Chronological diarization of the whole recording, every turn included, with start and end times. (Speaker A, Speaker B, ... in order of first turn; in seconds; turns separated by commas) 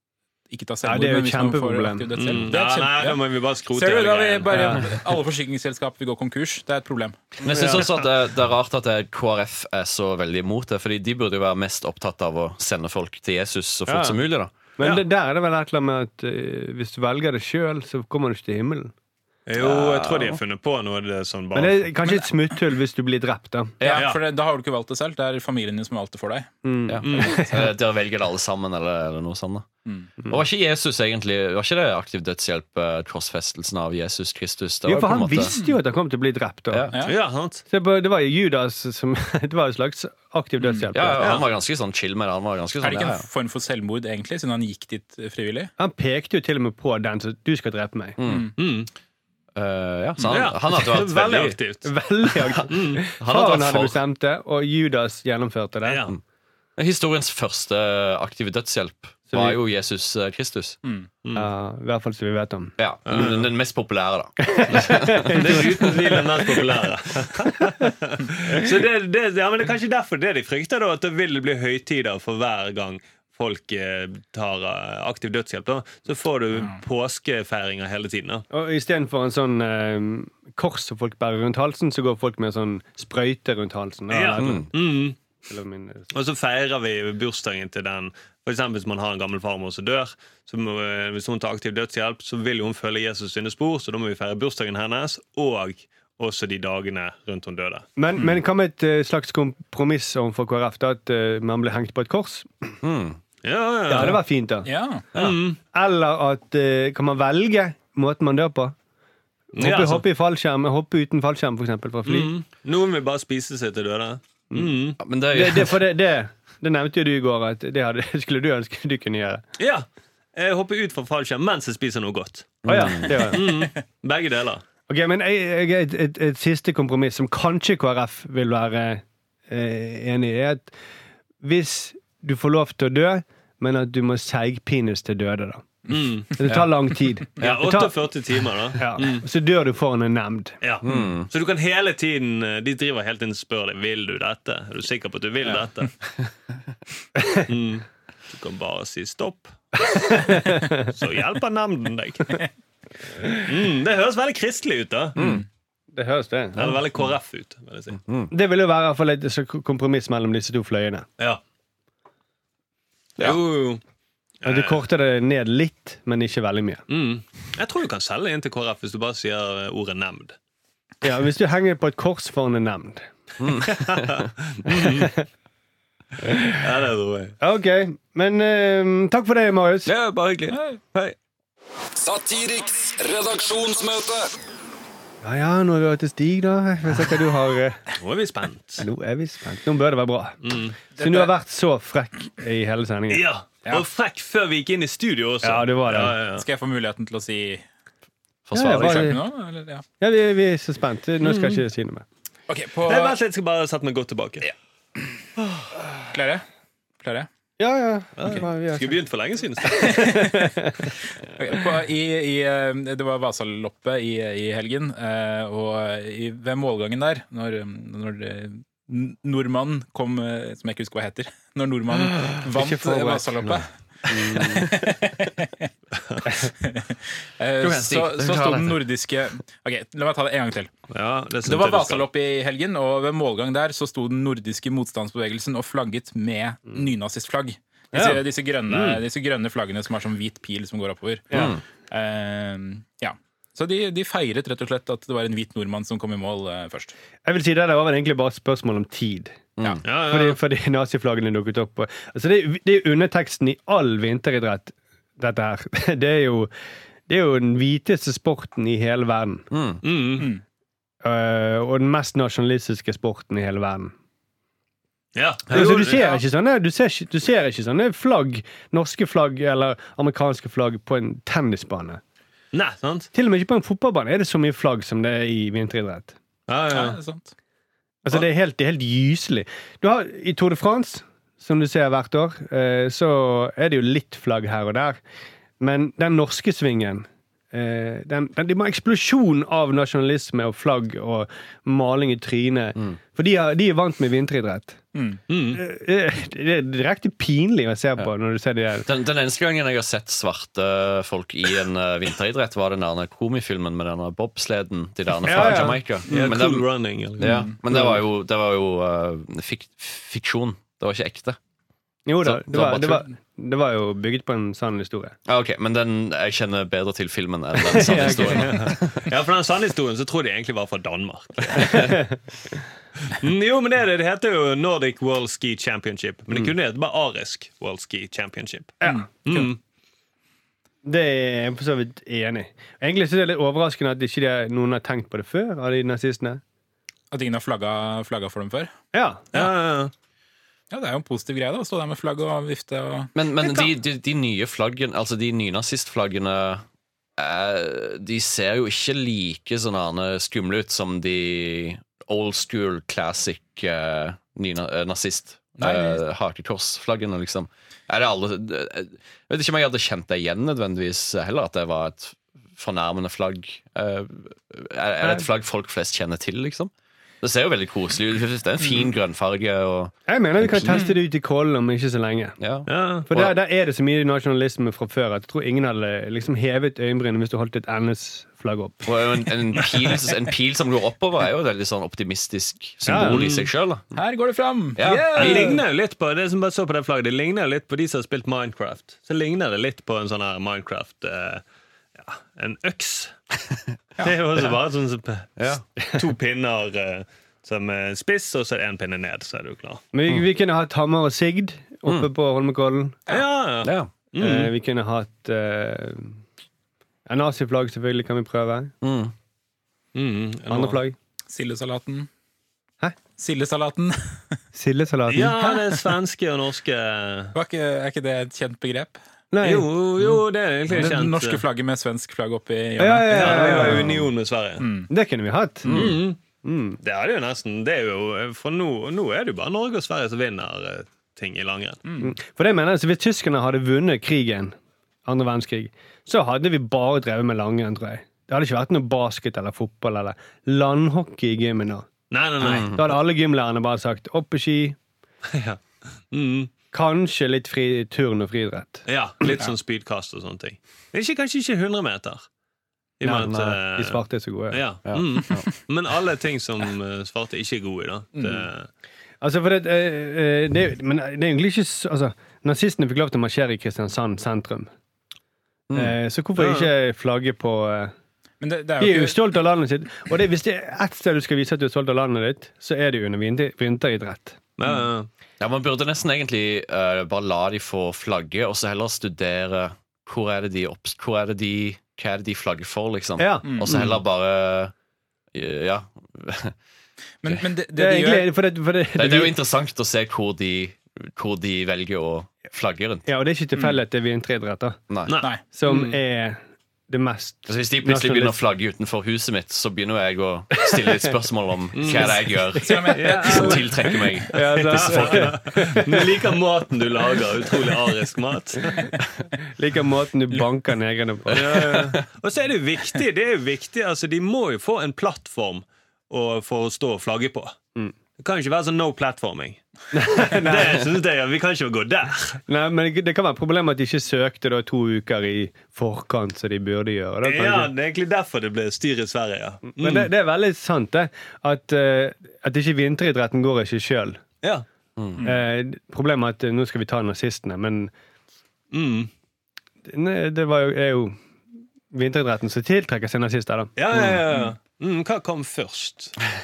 Speaker A: 0.5-7.2, Speaker B: 0.8-2.1, Speaker C: 2.2-4.8, Speaker D: 7.4-14.5, Speaker B: 7.5-8.0, Speaker B: 13.9-14.2, Speaker B: 14.8-18.9, Speaker C: 19.5-21.9, Speaker D: 19.6-20.4, Speaker B: 21.6-23.8, Speaker D: 23.8-24.1, Speaker A: 23.8-26.5, Speaker B: 26.6-27.7, Speaker D: 26.9-29.7, Speaker C: 27.0-27.4, Speaker D: 30.3-35.6, Speaker B: 34.9-36.9, Speaker A: 35.4-35.7, Speaker D: 36.7-37.0, Speaker A: 36.9-37.2, Speaker C: 37.0-37.6, Speaker B: 37.7-41.4, Speaker A: 40.6-40.9, Speaker D: 40.9-43.3, Speaker A: 42.8-45.7, Speaker B: 45.8-48.2, Speaker D: 48.2-48.6, Speaker A: 48.3-48.5, Speaker C: 48.6-48.9, Speaker D: 49.6-51.6, Speaker C: 50.3-53.0, Speaker B: 51.9-56.1, Speaker D: 53.2-54.0, Speaker C: 55.8-56.1, Speaker D: 56.8-60.8, Speaker B: 59.3-59.6, Speaker B: 61.4-62.8, Speaker D: 62.8-65.9, Speaker C: 63.1-63.5, Speaker B: 64.4-66.2, Speaker C: 65.3-78.5, Speaker A: 76.5-76.8, Speaker B: 78.5-84.8, Speaker C: 84.1-85.2, Speaker D: 84.4-84.7, Speaker B: 85.5-86.1, Speaker C: 86.1-97.9, Speaker B: 98.0-102.8, Speaker D: 102.8-103.2, Speaker C: 103.4-104.2, Speaker B: 103.9-108.8, Speaker A: 104.7-105.0, Speaker C: 105.2-105.6, Speaker B: 109.5-112.3, Speaker C: 109.6-110.0, Speaker C: 112.1-115.0, Speaker D: 115.0-115.8, Speaker B: 115.3-119.4, Speaker C: 119.6-124.6, Speaker D: 122.6-123.4, Speaker B: 122.7-123.5, Speaker B: 124.9-130.7, Speaker B: 131.4-138.0, Speaker C: 135.9-136.3, Speaker A: 136.4-136.7, Speaker C: 137.4-139.2, Speaker B: 138.8-140.6, Speaker C: 140.6-146.0, Speaker D: 140.8-141.3, Speaker B: 147.2-147.4, Speaker C: 147.5-150.1, Speaker B: 149.8-150.8, Speaker C: 150.8-152.4, Speaker C: 153.5-155.2, Speaker D: 155.2-155.4, Speaker A: 155.2-155.4, Speaker B: 155.9-156.8, Speaker C: 156.6-158.0, Speaker D: 158.0-158.3, Speaker B: 158.3-161.1, Speaker C: 163.2-163.8, Speaker C: 164.4-164.8, Speaker B: 164.4-166.8, Speaker C: 166.9-170.4, Speaker B: 171.0-173.1, Speaker D: 173.4-174.2, Speaker C: 173.7-175.1, Speaker B: 174.7-175.3, Speaker C: 176.6-177.4, Speaker B: 177.4-179.9, Speaker D: 179.9-181.2, Speaker A: 180.5-180.8, Speaker E: 182.0-184.3, Speaker B: 185.2-187.9, Speaker C: 188.0-188.9, Speaker B: 188.8-190.4, Speaker C: 190.4-190.8, Speaker B: 191.0-193.2, Speaker A: 191.0-191.3, Speaker C: 193.1-196.4, Speaker B: 195.4-196.2, Speaker A: 196.3-197.7, Speaker D: 198.5-199.2, Speaker B: 198.5-199.2, Speaker A: 198.6-199.8, Speaker B: 200.0-202.1, Speaker C: 201.2-201.6, Speaker A: 202.5-203.2, Speaker C: 202.9-204.5, Speaker A: 206.1-206.4, Speaker A: 207.0-207.3, Speaker B: 207.6-209.0, Speaker C: 208.2-210.0, Speaker B: 209.7-210.9, Speaker A: 210.0-210.4, Speaker A: 211.4-223.7, Speaker B: 222.5-223.6, Speaker B: 224.1-224.6, Speaker D: 224.2-224.6, Speaker A: 224.3-225.7, Speaker C: 226.0-226.3, Speaker A: 226.6-230.7, Speaker D: 227.6-228.8, Speaker C: 230.9-232.1, Speaker A: 231.4-241.3, Speaker B: 237.9-239.0, Speaker B: 241.3-241.6, Speaker D: 241.3-241.6, Speaker A: 241.9-246.9, Speaker B: 247.2-256.5, Speaker D: 249.6-249.8, Speaker C: 249.8-250.4, Speaker B: 257.1-259.5, Speaker D: 259.5-259.8, Speaker C: 259.8-260.3, Speaker B: 261.0-263.9, Speaker C: 265.1-266.2, Speaker B: 265.5-272.0, Speaker C: 272.5-273.1, Speaker B: 273.1-276.1, Speaker C: 276.5-277.0, Speaker A: 276.7-277.3, Speaker B: 278.1-285.0, Speaker B: 285.6-294.8, Speaker A: 294.9-295.2, Speaker C: 295.3-295.6, Speaker B: 295.6-298.9, Speaker D: 298.9-311.4, Speaker B: 305.2-306.4, Speaker C: 305.4-307.5, Speaker A: 307.2-307.6, Speaker B: 307.7-308.0, Speaker B: 312.1-315.2, Speaker D: 312.2-313.1, Speaker D: 315.3-319.1, Speaker B: 317.6-318.8, Speaker C: 318.2-321.9, Speaker B: 321.6-322.2, Speaker C: 323.1-329.6, Speaker B: 328.8-329.1, Speaker A: 328.8-329.5, Speaker B: 330.9-336.4, Speaker A: 337.1-338.7, Speaker B: 338.9-339.3, Speaker C: 339.3-339.9, Speaker A: 340.7-343.1, Speaker D: 343.1-346.6, Speaker C: 343.4-343.7, Speaker D: 347.2-370.9, Speaker A: 355.6-356.0, Speaker B: 370.1-372.4, Speaker D: 372.4-373.4, Speaker C: 372.7-373.1, Speaker B: 373.1-378.9, Speaker D: 378.9-384.0, Speaker B: 382.9-383.2, Speaker C: 383.1-383.5, Speaker A: 383.9-385.6, Speaker D: 384.8-385.6, Speaker C: 384.9-391.4, Speaker C: 392.0-393.1, Speaker C: 394.0-395.3, Speaker D: 395.4-395.6, Speaker C: 395.9-399.8, Speaker B: 399.9-403.0, Speaker C: 403.1-404.5, Speaker D: 403.6-403.9, Speaker B: 404.2-406.2, Speaker B: 407.1-408.7, Speaker D: 408.8-409.1, Speaker C: 409.9-410.8, Speaker B: 410.5-411.0, Speaker A: 411.3-412.1, Speaker A: 413.2-414.4, Speaker B: 414.5-415.3, Speaker C: 415.1-417.3, Speaker A: 417.3-419.0, Speaker B: 419.3-419.7, Speaker C: 419.4-421.4, Speaker A: 420.0-423.8, Speaker B: 422.8-424.1, Speaker C: 423.1-424.6, Speaker A: 424.6-424.9, Speaker B: 424.9-425.9, Speaker D: 425.7-426.0, Speaker C: 425.7-426.2, Speaker B: 426.4-426.8, Speaker C: 426.8-431.8, Speaker A: 431.9-432.1, Speaker B: 432.0-441.9, Speaker C: 442.1-442.7, Speaker D: 442.4-442.8, Speaker B: 442.5-444.8, Speaker C: 445.3-446.5, Speaker B: 446.7-448.9, Speaker C: 448.9-452.3, Speaker C: 453.0-458.7, Speaker B: 453.0-454.6, Speaker D: 453.2-453.6, Speaker D: 454.9-455.5, Speaker A: 458.1-458.4, Speaker B: 459.2-464.7, Speaker D: 465.7-466.0, Speaker B: 465.8-467.9, Speaker C: 466.4-466.7, Speaker A: 468.4-469.2, Speaker B: 468.8-474.4, Speaker C: 474.6-475.1, Speaker D: 475.4-484.7, Speaker B: 483.2-484.0, Speaker A: 483.4-483.7, Speaker D: 485.3-486.6, Speaker A: 487.2-488.3, Speaker B: 487.8-489.4, Speaker D: 489.0-493.1, Speaker B: 493.1-494.8, Speaker D: 494.9-495.2, Speaker C: 495.1-495.9, Speaker B: 495.4-498.4, Speaker D: 497.5-505.4, Speaker C: 501.7-502.1, Speaker A: 501.9-504.2, Speaker C: 502.9-503.7, Speaker B: 503.3-503.6, Speaker B: 504.3-506.2, Speaker C: 504.6-508.9, Speaker B: 509.6-511.8, Speaker C: 511.3-517.5, Speaker C: 518.2-519.6, Speaker B: 519.9-520.9, Speaker C: 520.3-522.4, Speaker B: 522.5-527.7, Speaker C: 527.2-530.1, Speaker B: 529.7-534.2, Speaker D: 535.0-535.2, Speaker B: 535.2-537.9, Speaker C: 538.7-539.1, Speaker B: 539.9-541.2, Speaker B: 541.9-543.7, Speaker C: 543.8-546.2